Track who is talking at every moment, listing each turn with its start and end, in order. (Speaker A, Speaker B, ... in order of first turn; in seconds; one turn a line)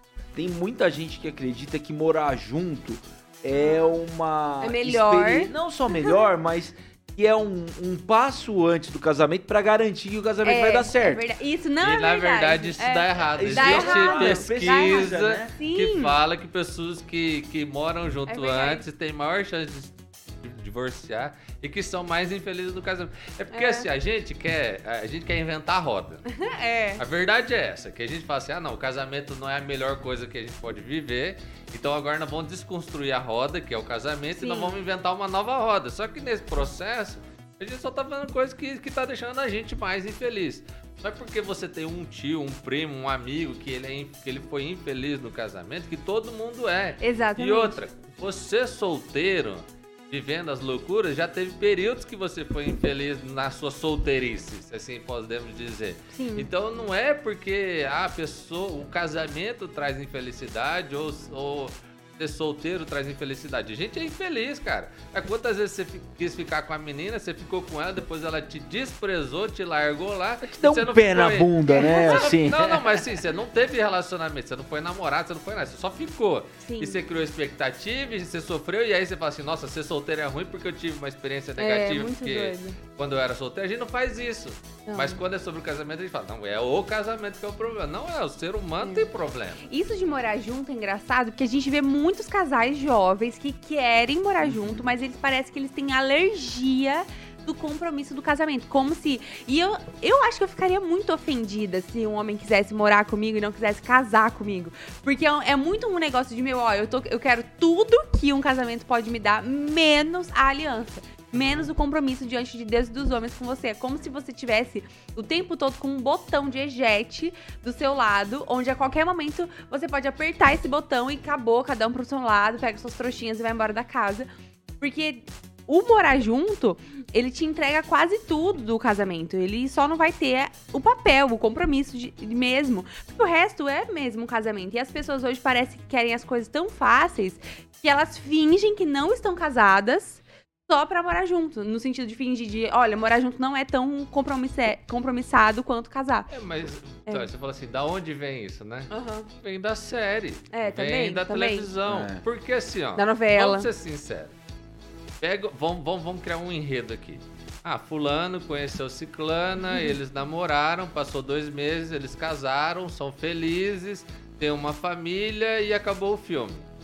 Speaker A: 0.3-11.2
Speaker B: 3.5-4.0
Speaker B: 4.6-6.3
Speaker B: 10.4-16.1
Speaker C: 11.8-26.4
Speaker A: 13.3-15.5
Speaker B: 18.3-18.8
Speaker B: 23.5-23.9
Speaker B: 26.3-27.0
Speaker C: 27.0-89.7
Speaker B: 34.3-34.8
Speaker B: 47.0-47.8
Speaker B: 56.1-56.5
Speaker A: 70.4-73.0
Speaker B: 71.7-72.3
Speaker B: 76.6-77.0
Speaker B: 81.6-82.8
Speaker B: 84.9-85.2
Speaker B: 88.8-89.1
Speaker B: 89.7-124.3
Speaker A: 94.4-94.8
Speaker C: 111.3-111.7
Speaker B: 124.8-146.3
Speaker C: 146.3-154.3
Speaker B: 148.9-149.3
Speaker B: 150.5-151.7
Speaker A: 151.8-152.2
Speaker B: 152.9-153.7
Speaker C: 155.2-166.7
Speaker B: 159.6-159.9